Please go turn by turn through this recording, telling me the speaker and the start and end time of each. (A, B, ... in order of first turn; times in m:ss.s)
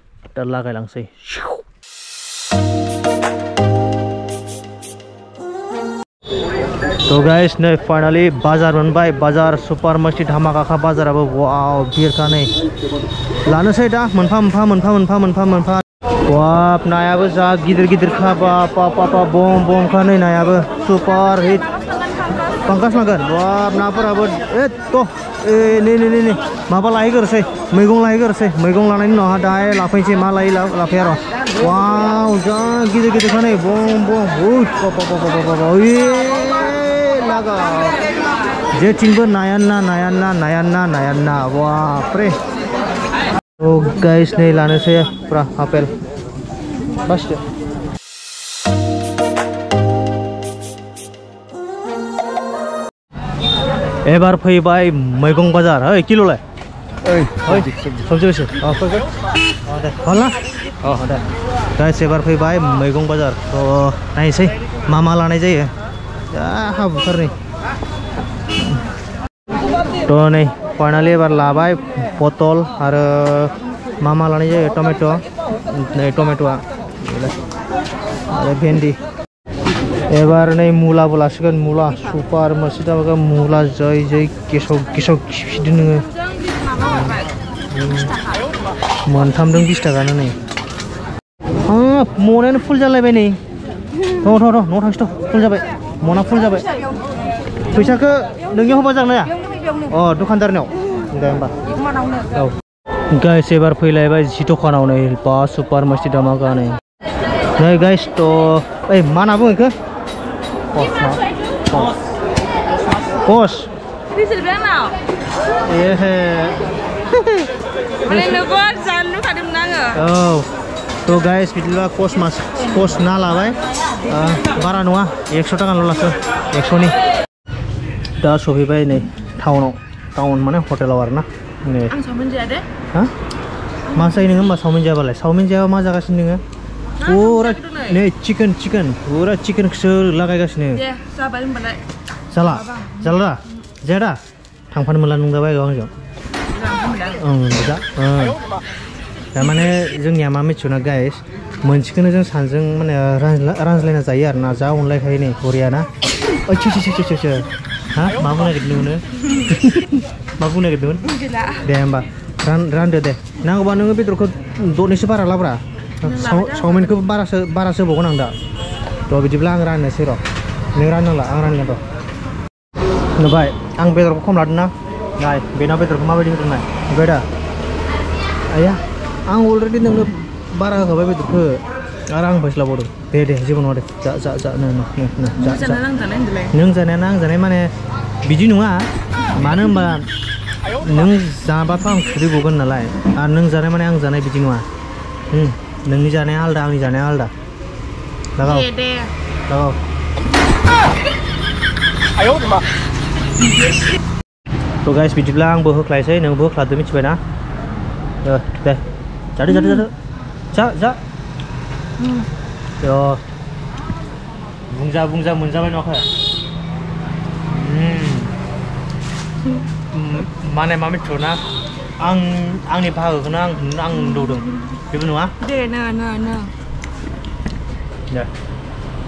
0:00.3-0:01.6 A
0:07.1-0:12.5 A
0:13.4-0:21.7 A
0:22.6-0:38.1 A
0:38.7-0:42.3 A
0:43.6-0:45.9 A
0:47.0-0:47.4 A
0:54.0-0:56.4 A
0:57.1-0:59.1 A
0:59.6-1:01.2 A
1:01.7-1:05.7 A
1:06.3-1:07.3 A
1:10.0-1:17.4 A
1:18.3-1:19.0 A
1:20.1-1:26.1 A
1:26.8-1:28.2 A
1:29.1-1:30.3 A
1:31.6-1:33.4 A
1:34.2-1:36.7 A
1:37.7-1:39.3 A
1:39.9-1:41.5 A
1:43.1-1:46.8 A
1:47.6-1:49.7 A
1:50.7-1:52.0 A
1:53.2-1:53.7 A
1:54.1-1:54.9 B
1:55.6-1:56.6 A
1:57.1-1:57.4 A
1:58.0-1:58.4 A
1:58.1-2:00.0 B
1:59.9-2:00.5 A
2:01.0-2:07.0 A
2:08.2-2:11.9 A
2:11.9-2:12.7 B
2:13.9-2:16.4 A
2:17.0-2:18.0 B
2:17.0-2:20.8 A
2:20.7-2:21.8 B
2:22.3-2:24.2 A
2:22.7-2:23.0 B
2:24.7-2:25.9 A
2:26.6-2:27.2 B
2:27.0-2:28.4 A
2:29.3-2:35.9 A
2:36.4-2:48.3 A
2:41.1-2:41.6 B
2:46.0-2:46.9 B
2:49.1-2:50.2 A
2:50.7-2:51.8 A
2:53.2-2:57.2 A
2:58.5-3:05.8 A
3:05.4-3:06.5 B
3:06.5-3:07.7 A
3:08.2-3:08.8 A
3:09.3-3:10.0 A
3:10.8-3:14.6 A
3:15.3-3:17.3 A
3:18.4-3:18.7 A
3:18.4-3:19.1 B
3:19.5-3:19.8 A
3:24.8-3:27.2 A
3:28.2-3:28.8 A
3:29.3-3:29.9 A
3:30.5-3:31.0 A
3:32.0-3:32.3 B
3:32.8-3:33.2 A
3:34.7-3:36.1 A
3:37.5-3:38.3 A
3:39.9-3:41.4 A
3:42.0-3:45.3 A
3:45.4-3:46.5 B